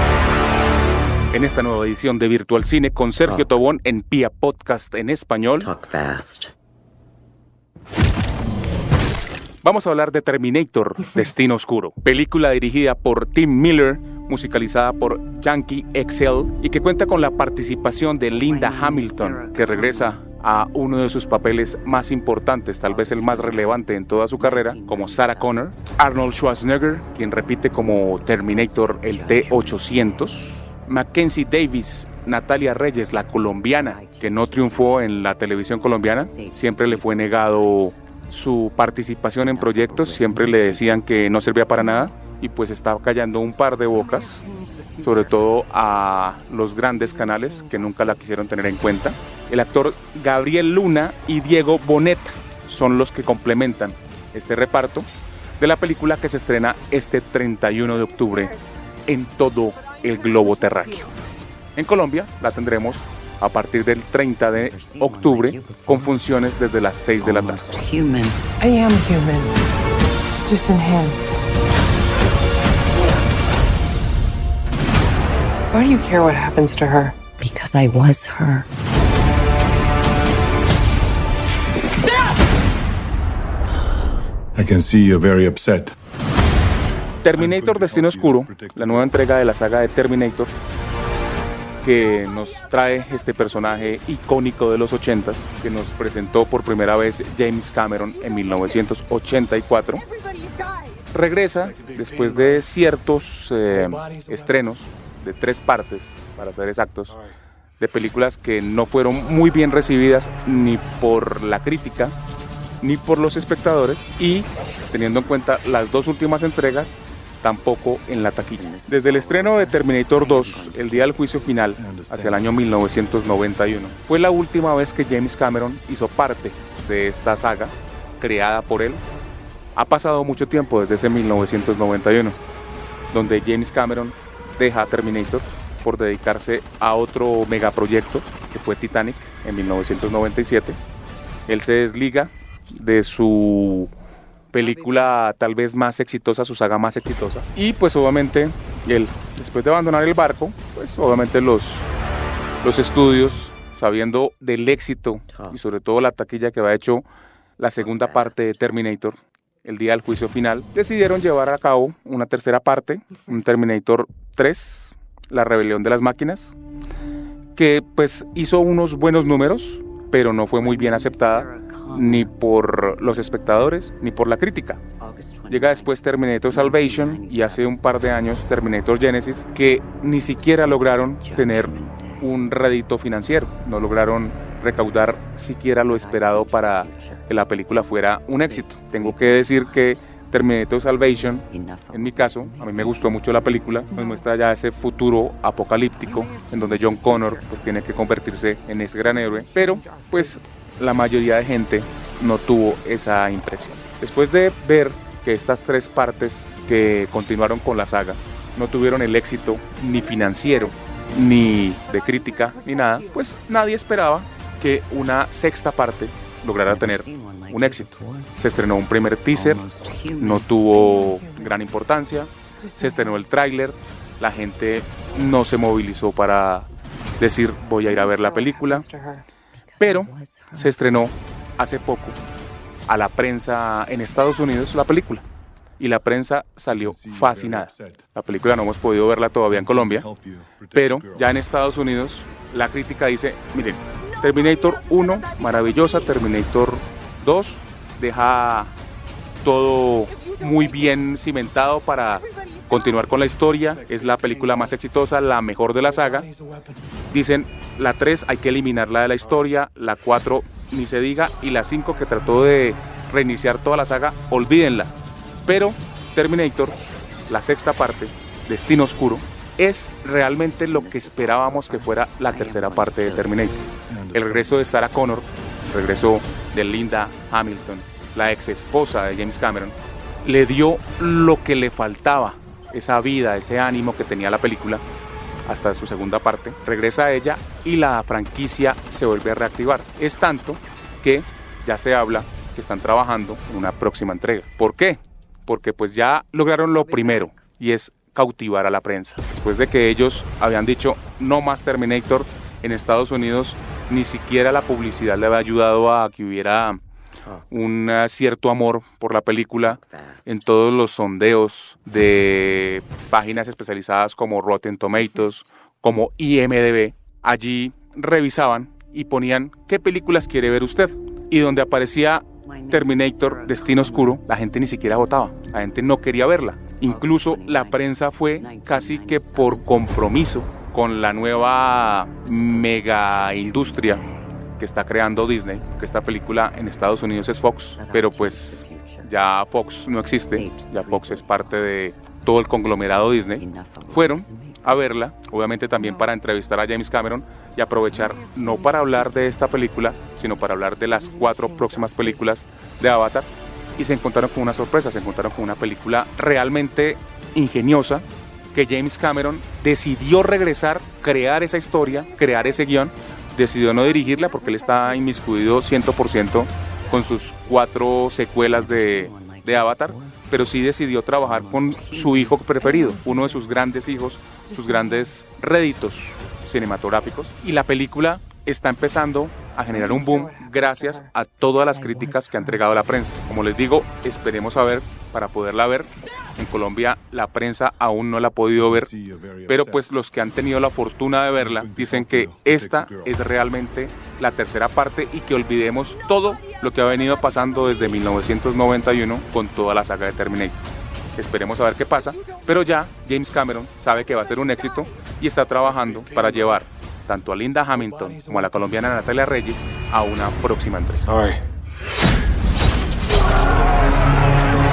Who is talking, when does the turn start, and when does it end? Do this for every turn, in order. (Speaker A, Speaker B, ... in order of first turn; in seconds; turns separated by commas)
Speaker A: 1.3-5.7, Speaker B: 3.2-3.6, Speaker B: 5.6-6.5, Speaker A: 9.6-44.5, Speaker B: 18.3-20.2, Speaker B: 22.9-25.6, Speaker B: 28.2-30.3, Speaker B: 33.7-38.0, Speaker B: 39.5-41.0, Speaker C: 44.4-44.8, Speaker B: 44.9-45.4, Speaker A: 45.0-55.1, Speaker C: 47.0-47.8, Speaker A: 55.6-61.1, Speaker A: 61.8-67.7, Speaker B: 64.5-66.3, Speaker B: 67.2-68.4, Speaker C: 68.6-69.5, Speaker C: 70.5-71.4, Speaker C: 75.7-77.1, Speaker B: 77.4-78.7, Speaker D: 84.6-86.0, Speaker A: 87.2-90.5, Speaker D: 87.4-89.1, Speaker A: 91.8-100.0, Speaker A: 101.1-107.2, Speaker A: 107.8-112.2, Speaker A: 112.8-129.0, Speaker B: 118.6-121.7, Speaker D: 121.8-122.5, Speaker A: 129.8-132.4, Speaker A: 133.1-140.8, Speaker A: 141.5-143.9, Speaker A: 144.5-151.9, Speaker B: 144.6-145.2, Speaker A: 152.6-157.1, Speaker A: 157.6-166.6, Speaker B: 157.8-158.8, Speaker A: 167.6-174.8, Speaker B: 170.6-172.3, Speaker B: 175.0-177.8, Speaker A: 175.5-219.6, Speaker B: 180.1-182.3, Speaker B: 185.8-187.3, Speaker B: 188.4-190.2, Speaker B: 191.5-193.3, Speaker B: 196.5-197.4, Speaker C: 199.6-200.3, Speaker B: 216.6-218.4, Speaker B: 219.3-220.6, Speaker A: 220.2-226.7, Speaker C: 220.8-221.5, Speaker C: 222.6-223.2, Speaker A: 227.2-228.8, Speaker C: 227.9-229.2, Speaker B: 229.6-230.9, Speaker A: 229.8-232.2, Speaker A: 232.9-235.2, Speaker A: 235.8-240.1, Speaker D: 236.7-238.1, Speaker D: 239.5-241.3, Speaker A: 240.7-248.7, Speaker A: 249.4-256.3, Speaker A: 257.1-264.9, Speaker A: 265.4-266.8, Speaker A: 267.3-284.8, Speaker B: 270.7-273.5, Speaker D: 273.9-274.7, Speaker A: 285.5-306.8, Speaker B: 296.7-297.4, Speaker A: 307.5-334.0, Speaker B: 309.6-310.3, Speaker B: 322.4-324.2, Speaker B: 326.9-330.2, Speaker B: 332.1-334.3, Speaker A: 334.6-388.9, Speaker B: 337.8-339.1, Speaker B: 340.2-342.1, Speaker B: 343.2-344.9, Speaker C: 350.9-352.2, Speaker B: 368.5-370.6, Speaker B: 371.2-373.2, Speaker C: 374.5-375.0, Speaker C: 379.7-381.1, Speaker C: 381.8-382.6, Speaker D: 388.6-389.9, Speaker A: 389.5-411.1, Speaker D: 391.4-393.2